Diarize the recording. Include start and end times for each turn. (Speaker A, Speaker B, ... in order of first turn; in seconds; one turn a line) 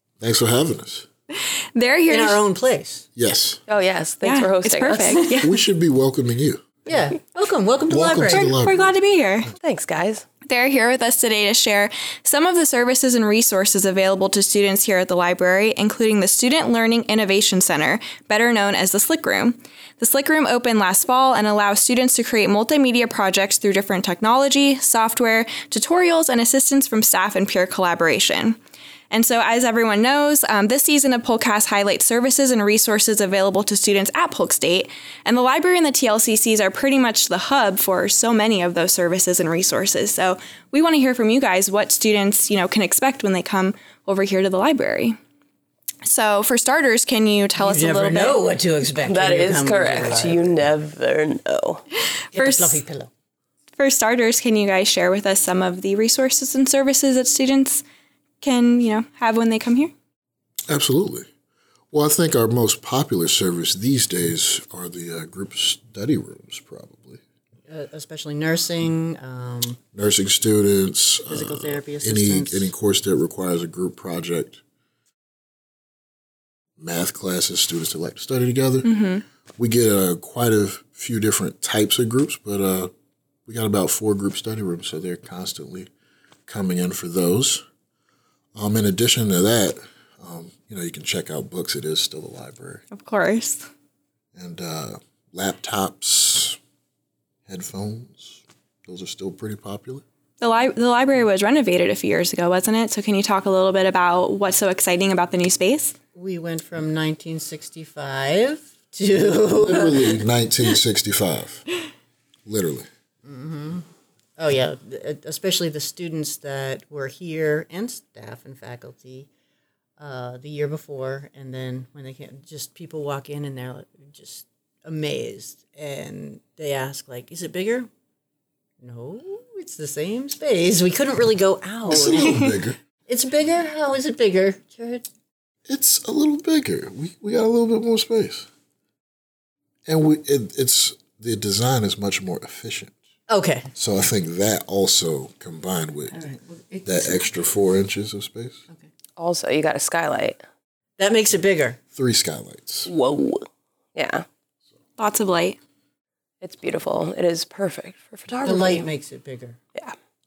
Speaker A: 0.2-1.1
Speaker B: 1.8-2.4
Speaker C: 2.1-3.1
Speaker A: 3.2-3.6
Speaker D: 3.7-5.4
Speaker B: 4.2-5.5
Speaker C: 4.9-5.5
Speaker A: 5.4-6.7
Speaker C: 6.9-8.5
Speaker A: 7.9-8.9
Speaker B: 8.3-9.5
Speaker D: 9.6-10.3
Speaker B: 10.5-28.6
Speaker B: 29.1-45.2
Speaker B: 46.0-48.4
Speaker C: 47.6-50.7
Speaker D: 49.1-51.8
Speaker B: 52.3-52.8
Speaker C: 52.3-53.1
Speaker B: 53.8-57.8
Speaker B: 58.4-59.9
Speaker A: 60.7-61.3
Speaker A: 61.9-67.2
Speaker C: 67.7-69.8
Speaker A: 69.9-74.6
Speaker C: 71.3-72.7
Speaker A: 76.8-78.9
Speaker B: 78.8-79.2
Speaker A: 79.6-82.9
Speaker A: 83.5-85.9
Speaker A: 86.5-87.6
Speaker A: 88.6-92.8
Speaker B: 92.9-93.7
Speaker A: 94.3-96.6
Speaker A: 97.5-100.0
Speaker B: 100.4-106.0
Speaker C: 106.2-110.2
Speaker A: 109.6-111.6
Speaker A: 112.5-112.9
Speaker C: 113.2-113.9
Speaker C: 114.4-119.3
Speaker C: 120.0-127.9
Speaker C: 128.8-132.5
Speaker A: 131.9-132.8
Speaker B: 131.9-132.5
Speaker C: 133.1-135.1
Speaker A: 135.7-138.5
Speaker A: 139.9-142.9
Speaker C: 143.3-143.7
Speaker A: 143.8-146.2
Speaker C: 146.1-147.2
Speaker A: 146.9-148.7
Speaker D: 149.2-150.4
Speaker C: 151.0-151.8
Speaker A: 151.9-152.9
Speaker D: 152.9-154.2
Speaker B: 155.0-155.6
Speaker D: 156.4-158.9
Speaker C: 158.4-159.6